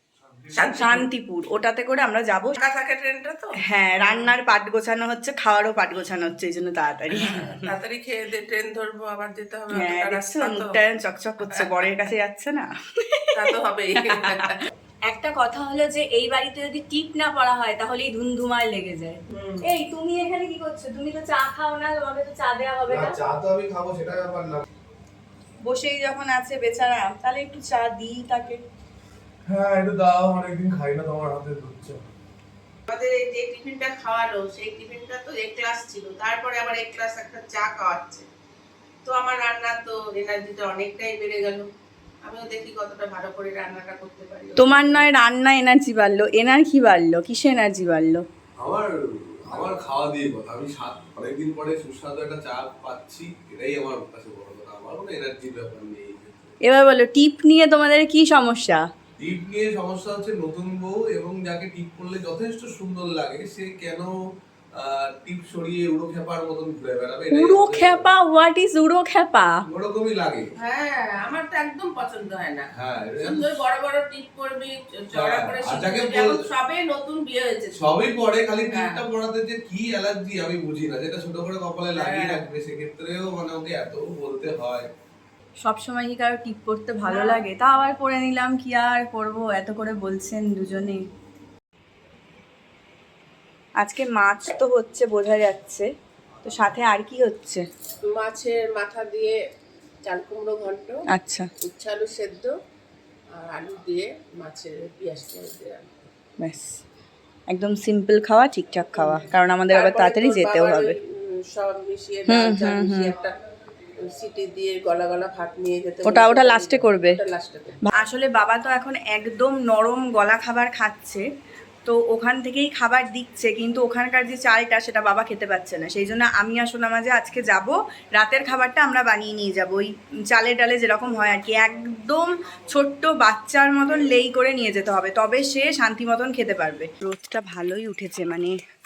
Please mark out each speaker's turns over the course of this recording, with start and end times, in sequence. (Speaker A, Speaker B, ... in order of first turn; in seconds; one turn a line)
Speaker A: 0.5-1.1
Speaker B: 0.6-2.6
Speaker A: 2.6-4.3
Speaker B: 3.6-7.7
Speaker A: 7.1-10.8
Speaker B: 9.7-13.4
Speaker A: 11.6-11.8
Speaker A: 13.3-14.7
Speaker B: 14.0-14.6
Speaker B: 15.1-23.2
Speaker A: 19.3-19.6
Speaker C: 22.9-24.6
Speaker B: 25.6-28.6
Speaker C: 29.5-32.0
Speaker A: 32.9-38.2
Speaker A: 39.0-41.7
Speaker A: 42.2-45.0
Speaker B: 44.6-48.2
Speaker C: 48.6-56.5
Speaker B: 56.6-58.8
Speaker C: 59.2-64.1
Speaker C: 64.8-68.1
Speaker B: 67.3-69.6
Speaker C: 69.7-70.5
Speaker A: 70.6-72.7
Speaker C: 72.7-73.6
Speaker A: 73.2-77.9
Speaker C: 75.1-76.4
Speaker C: 77.7-84.9
Speaker A: 78.7-79.0
Speaker A: 81.9-82.5
Speaker B: 85.6-91.0
Speaker A: 87.1-87.4
Speaker B: 93.8-95.9
Speaker B: 96.4-97.6
Speaker A: 98.0-99.4
Speaker A: 100.0-101.0
Speaker B: 101.1-101.5
Speaker A: 101.6-102.5
Speaker A: 103.3-105.9
Speaker B: 106.4-106.8
Speaker B: 107.5-110.9
Speaker A: 108.9-111.0
Speaker A: 111.5-113.3
Speaker B: 112.3-113.1
Speaker A: 114.1-117.8
Speaker B: 116.0-117.2
Speaker B: 117.8-121.2
Speaker B: 121.8-138.6